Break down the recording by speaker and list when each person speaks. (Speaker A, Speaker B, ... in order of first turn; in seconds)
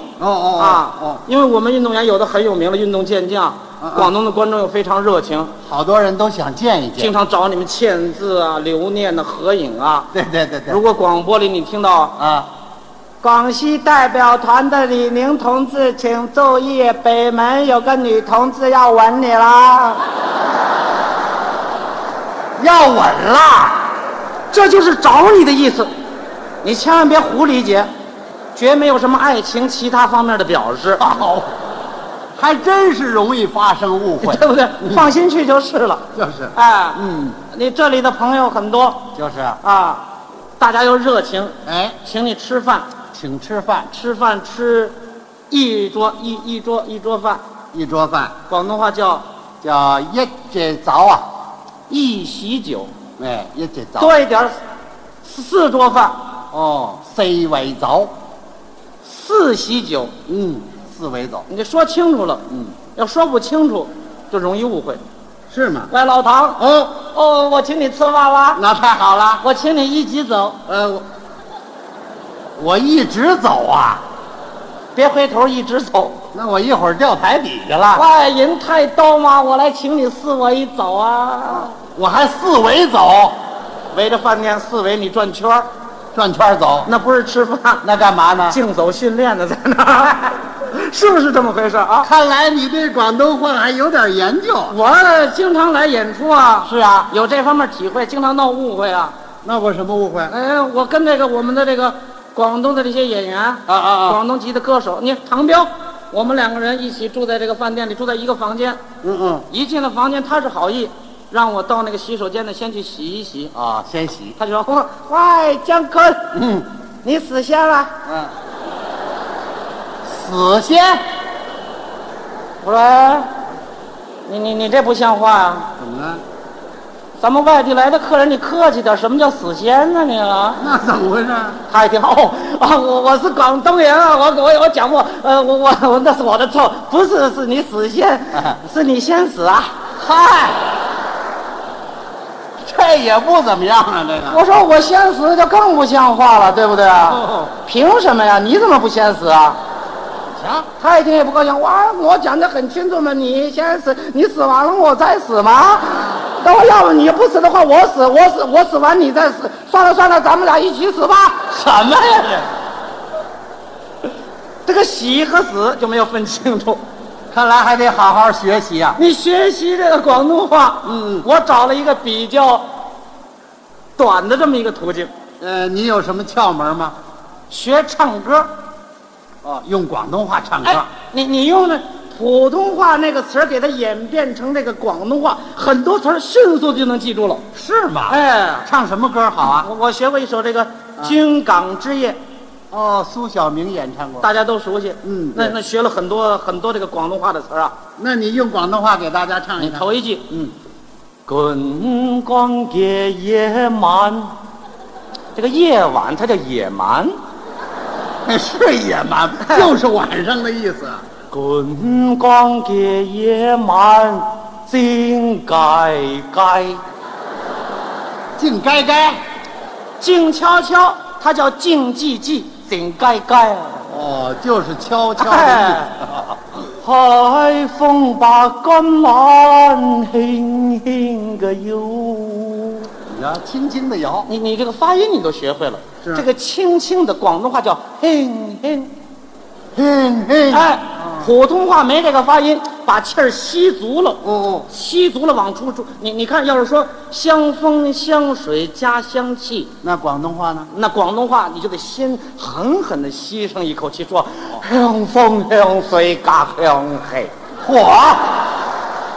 Speaker A: 0.2-1.2, 3.8-4.1, 5.7-7.1, 10.1-10.8, 12.2-12.5, 22.6-23.9, 31.0-31.6, 32.4-35.1, 36.1-37.4, 39.1-39.6, 41.6-42.0, 43.1-43.9, 47.7-48.3, 49.6-51.3, 53.2-54.2, 56.5-58.1, 60.3-61.5, 65.5-65.9, 66.6-67.0, 68.6-69.5, 70.7-71.0, 72.6-74.0, 76.3-78.1, 81.7-83.4, 86.1-86.9, 87.8-88.6, 92.0-94.8, 96.7-97.1, 99.4-100.3, 103.7-104.2, 109.0-109.5, 113.5-114.4, 116.3-116.7, 118.1-118.3, 120.0-121.0, 125.8-126.2, 130.6-131.6, 140.0-140.6, 142.6-144.4, 147.0-147.5, 150.4-150.7, 161.5-162.5, 167.3-169.0, 170.9-171.3, 175.4-177.0, 179.4-180.9, 187.5-189.7, 192.7-194.3, 195.0-195.6, 198.0-200.5, 208.2-211.0, 218.4-219.2, 223.9-226.4, 233.1-234.3, 239.7-241.3, 244.2-244.7, 249.8-250.7, 257.6-258.4
Speaker B: 0.6-5.5, 7.0-10.1, 10.7-12.2, 13.2-20.1, 24.5-25.9, 26.6-27.9, 28.6-31.1, 34.2-39.1, 39.6-40.1, 40.6-42.9, 43.9-45.0, 45.5-47.4, 48.5-49.2, 51.9-52.9, 54.0-54.6, 55.2-56.3, 59.0-60.1, 61.5-65.0, 65.9-68.6, 69.4-70.6, 75.0-76.2, 77.9-81.7, 83.9-85.7, 86.8-87.8, 88.5-92.1, 94.7-99.1, 100.3-108.8, 109.5-113.5, 114.4-116.3, 117.0-117.9, 122.6-123.3, 124.3-125.7, 127.2-130.6, 131.7-139.8, 144.3-149.6, 150.8-161.5, 164.7-166.8, 169.0-172.7, 174.0-175.1, 177.5-178.5, 180.6-187.4, 188.1-188.7, 189.4-192.2, 194.2-197.8, 199.6-200.3, 201.3-204.3, 205.3-207.2, 209.4-209.7, 211.3-216.8, 220.0-223.9, 225.2-226.0, 226.7-232.9, 234.3-238.9, 240.5-249.7, 250.7-257.3